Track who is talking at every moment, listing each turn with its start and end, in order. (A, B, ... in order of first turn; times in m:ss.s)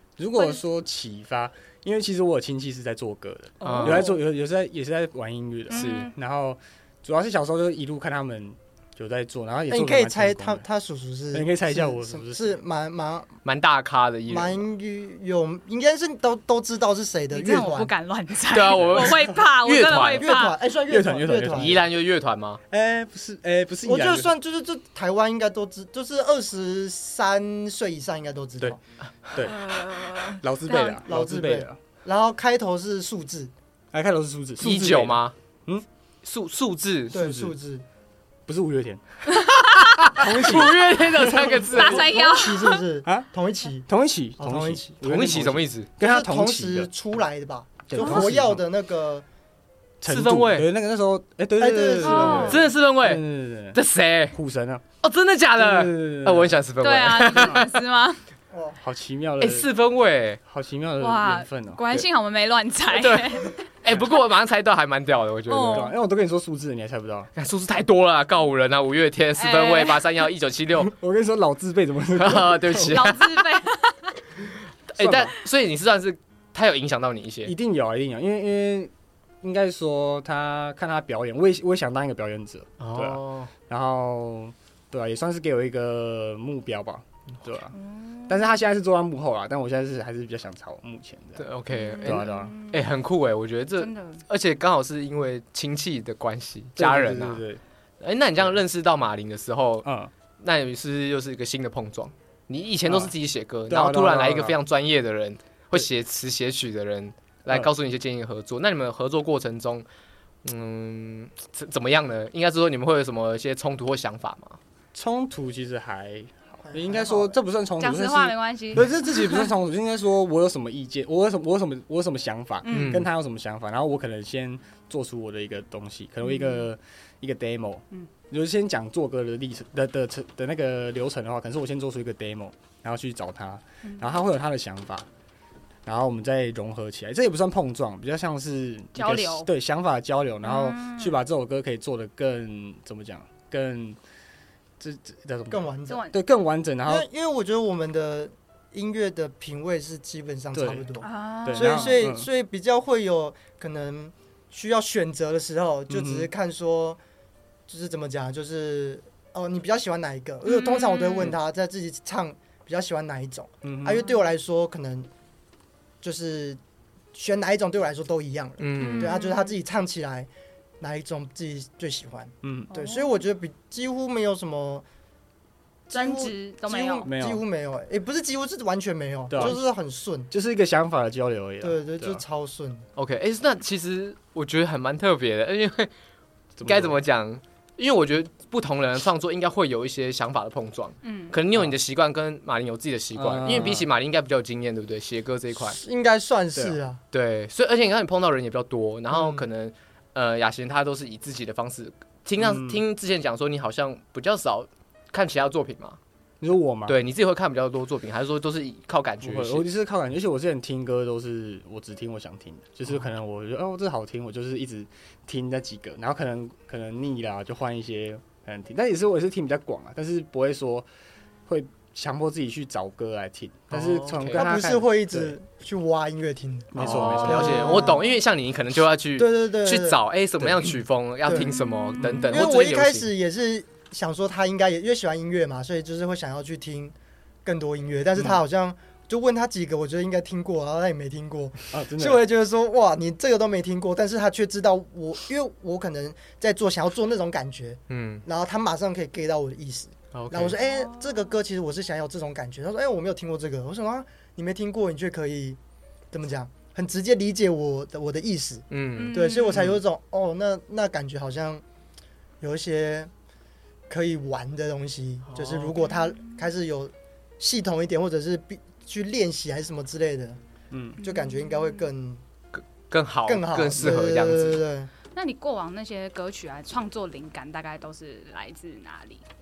0:00.2-0:10.6 A
0:03.6-0:04.1 B
0:03.6-0:04.2 C
0:05.7-0:06.1 C
0:05.7-0:06.1 B
0:09.7-0:13.3 D
0:11.3-0:12.6 A
0:13.4-0:14.6 B
0:14.3-0:17.9 D
0:17.3-0:20.6 C
0:18.5-0:20.3 B
0:20.0-0:21.8 D
0:20.9-0:21.9 A
0:21.5-0:22.6 B
0:22.7-0:24.3 A
0:23.8-0:28.8 D
0:29.3-0:31.8 A
0:29.4-0:31.0 C
0:31.0-0:33.5 D
0:33.9-0:35.9 A
0:34.6-0:35.4 B
0:36.2-0:37.2 B
0:37.1-0:37.6 A
0:37.1-0:37.8 D
0:38.5-0:39.0 A
0:39.6-0:42.2 B
0:40.1-0:41.7 A
0:41.7-0:42.8 C
0:41.7-0:43.9 D
0:43.9-0:46.9 A
0:44.4-0:45.0 D
0:45.0-0:45.9 B
0:46.0-0:49.3 D
0:47.9-0:48.6 A
0:48.0-0:48.3 C
0:50.0-0:53.8 A
0:50.1-0:50.7 B
0:51.6-0:52.6 D
0:52.0-0:52.6 C
0:52.5-0:54.4 B
0:54.3-0:54.8 A
0:55.0-0:57.7 B
0:55.6-0:56.6 A
0:56.8-0:58.2 C
0:57.4-0:57.6 A
0:58.5-0:58.8 D
0:58.8-0:59.7 A
0:59.4-1:00.4 B
1:00.5-1:02.0 A
1:01.0-1:03.6 C
1:02.9-1:05.9 B
1:05.5-1:05.9 C
1:05.7-1:07.3 A
1:07.4-1:10.9 B
1:09.4-1:10.1 C
1:10.8-1:13.0 A
1:12.1-1:13.2 B
1:12.9-1:14.2 C
1:14.9-1:17.5 B
1:15.0-1:15.3 A
1:17.4-1:31.5 A
1:22.8-1:23.5 B
1:27.7-1:28.4 C
1:31.4-1:37.4 B
1:31.7-1:32.9 C
1:32.0-1:32.5 A
1:33.8-1:34.2 C
1:36.8-1:37.6 A
1:38.0-1:39.9 B
1:39.8-1:40.1 A
1:40.4-1:49.9 B
1:43.7-1:44.6 A
1:50.4-1:54.6 B
1:54.9-2:15.1 A
1:56.7-1:57.3 D
1:57.8-1:59.4 C
2:02.6-2:03.0 C
2:02.7-2:03.1 B
2:06.3-2:06.7 C
2:13.8-2:14.1 C
2:15.9-2:24.0 A
2:19.0-2:19.5 C
2:20.4-2:21.2 C
2:24.8-2:27.1 A
2:25.5-2:26.1 D
2:25.9-2:26.1 C
2:26.8-2:37.0 D
2:30.5-2:30.9 A
2:31.0-2:32.0 C
2:31.4-2:32.3 A
2:35.9-2:36.3 A
2:37.7-2:45.1 D
2:40.4-2:41.4 C
2:43.6-2:44.0 A
2:46.0-2:46.6 D
2:47.1-2:50.3 D
2:48.6-2:49.2 B
2:48.8-2:49.6 C
2:50.8-2:54.8 D
2:52.4-2:52.7 A
2:52.7-2:53.1 C
2:55.9-3:00.3 D
2:55.9-2:57.1 C
2:57.0-2:57.4 A
2:59.3-2:59.6 A
3:00.3-3:02.2 A
3:01.6-3:02.9 D
3:03.0-3:05.9 B
3:06.6-3:07.0 A
3:06.6-3:15.8 B
3:11.0-3:11.4 C
3:13.2-3:13.9 A
3:15.6-3:17.0 D
3:16.6-3:16.8 A
3:17.1-3:26.0 B
3:19.1-3:19.5 D
3:22.4-3:22.8 A
3:26.4-3:27.0 A
3:26.9-3:29.7 B
3:29.2-3:40.9 A
3:41.5-3:45.4 A
3:43.7-3:44.6 B
3:44.4-3:48.1 D
3:46.7-3:47.9 A
3:46.8-3:53.1 B
3:49.2-3:50.0 D
3:51.2-3:51.6 D
3:51.4-3:52.1 C
3:52.0-3:52.4 A
3:52.3-3:56.9 D
3:57.4-4:15.6 D
4:01.7-4:02.3 A
4:07.9-4:08.2 B
4:10.1-4:10.6 B
4:10.6-4:11.4 C
4:16.1-4:21.6 D
4:18.7-4:19.8 B
4:19.0-4:19.7 C
4:22.4-4:23.1 D
4:23.9-4:30.4 D
4:25.3-4:25.8 B
4:30.7-4:31.0 A
4:31.0-4:31.9 C
4:31.0-4:32.2 D
4:32.5-4:34.6 B
4:33.3-4:34.9 D
4:35.2-4:39.2 C